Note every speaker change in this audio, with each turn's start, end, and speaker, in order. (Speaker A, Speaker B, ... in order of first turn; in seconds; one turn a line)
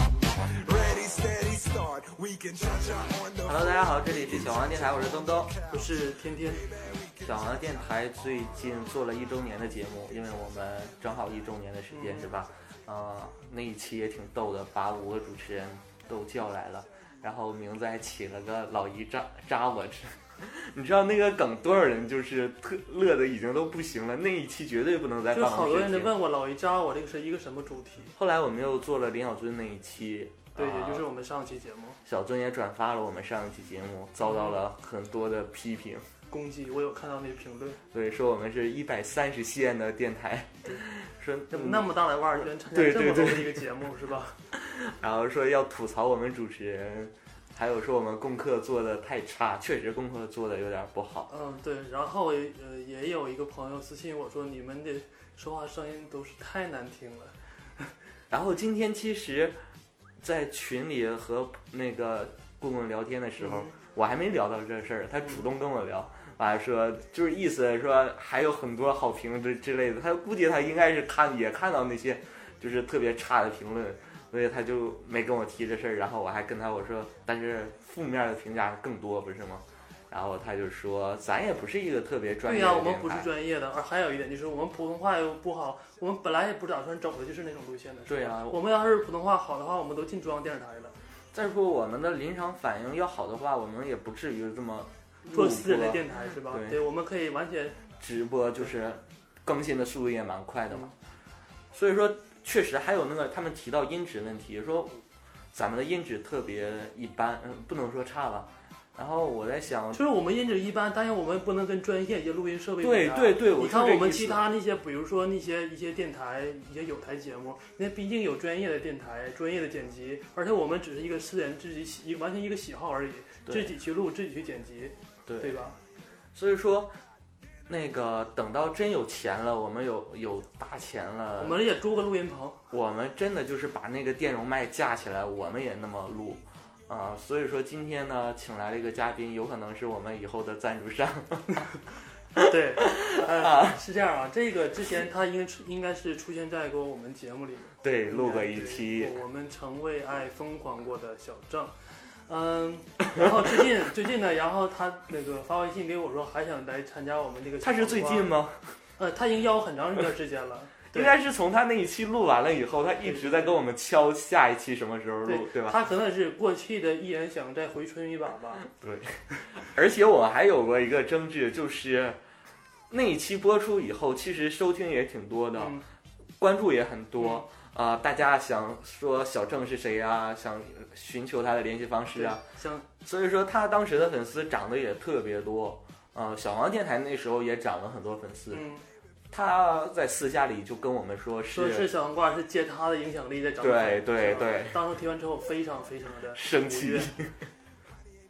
Speaker A: 0.4-7.9
Speaker B: 3.5-5.5
Speaker C: 5.7-6.7
Speaker B: 7.2-26.1
Speaker C: 11.9-12.3
Speaker C: 25.3-28.1
Speaker B: 28.1-31.0
Speaker C: 30.5-32.0
Speaker B: 32.0-36.0
Speaker C: 34.2-34.6
Speaker C: 36.3-37.8
Speaker B: 37.9-41.9
Speaker C: 41.5-44.4
Speaker B: 42.6-43.6
Speaker B: 44.5-51.3
Speaker C: 51.3-57.9
Speaker B: 58.3-59.6
Speaker B: 60.2-83.3
Speaker C: 63.4-63.7
Speaker C: 82.5-90.9
Speaker B: 88.1-88.6
Speaker B: 91.3-96.8
Speaker C: 95.3-97.8
Speaker B: 98.0-100.9
Speaker B: 101.7-105.0
Speaker B: 105.5-110.0
Speaker C: 109.9-125.8
Speaker B: 112.8-114.5
Speaker B: 123.5-123.7
Speaker B: 125.3-125.6
Speaker B: 126.3-126.9
Speaker B: 127.7-131.6
Speaker C: 131.4-132.6
Speaker B: 132.7-141.7
Speaker C: 142.4-158.3
Speaker B: 142.4-143.8
Speaker B: 147.8-149.2
Speaker B: 157.6-158.8
Speaker C: 159.0-161.1
Speaker B: 160.9-165.8
Speaker C: 163.0-163.6
Speaker C: 165.2-168.7
Speaker B: 168.7-172.2
Speaker B: 172.9-175.8
Speaker C: 175.6-175.8
Speaker B: 176.4-182.4
Speaker C: 177.2-177.4
Speaker C: 182.1-182.8
Speaker B: 183.0-188.7
Speaker C: 188.5-188.8
Speaker B: 189.3-191.9
Speaker C: 191.5-197.1
Speaker B: 193.6-194.8
Speaker B: 196.3-197.3